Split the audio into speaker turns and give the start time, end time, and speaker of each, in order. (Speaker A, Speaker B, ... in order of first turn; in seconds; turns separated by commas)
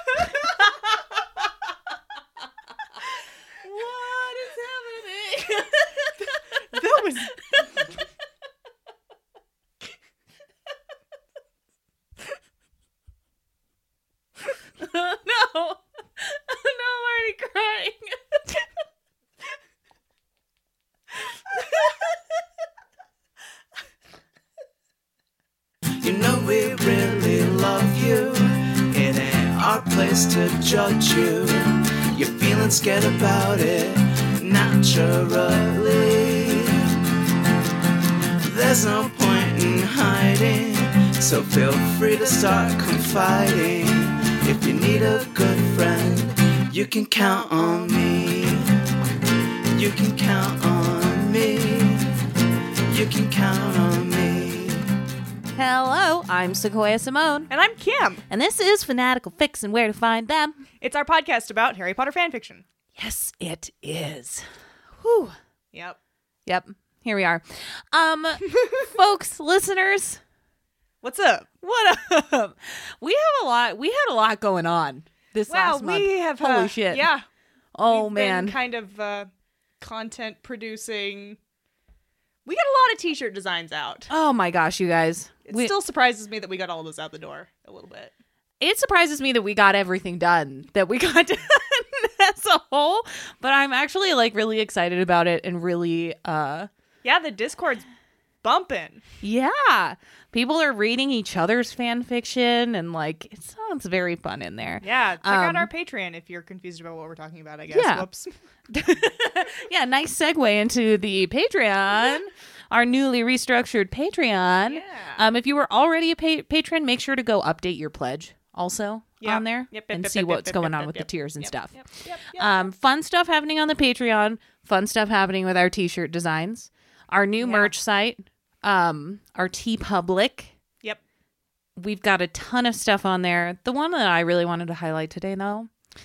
Speaker A: 0.2-0.5, Speaker A: 3.6-6.1, Speaker B: 6.7-7.4, Speaker A: 7.5-7.8, Speaker A: 14.8-18.6, Speaker A: 21.5-22.1, Speaker C: 26.0-36.9, Speaker C: 38.4-48.7, Speaker C: 49.7-52.0, Speaker C: 52.9-54.9, Speaker A: 55.5-57.5, Speaker B: 57.5-58.2, Speaker A: 58.3-60.6, Speaker B: 60.8-62.6, Speaker A: 63.0-65.3, Speaker B: 65.7-66.0, Speaker A: 66.5-70.2, Speaker B: 71.0-71.5, Speaker A: 71.6-77.1, Speaker B: 75.5-77.2, Speaker A: 77.7-78.6, Speaker B: 77.9-81.4, Speaker B: 82.4-84.1, Speaker A: 84.1-85.7, Speaker B: 85.5-88.1, Speaker A: 88.6-96.7, Speaker B: 97.0-97.8, Speaker B: 98.4-99.0, Speaker A: 99.2-105.7, Speaker B: 104.8-108.3, Speaker A: 107.7-108.0, Speaker A: 108.7-130.5, Speaker B: 114.7-115.2, Speaker B: 119.2-122.7, Speaker B: 127.4-127.7, Speaker A: 131.8-135.7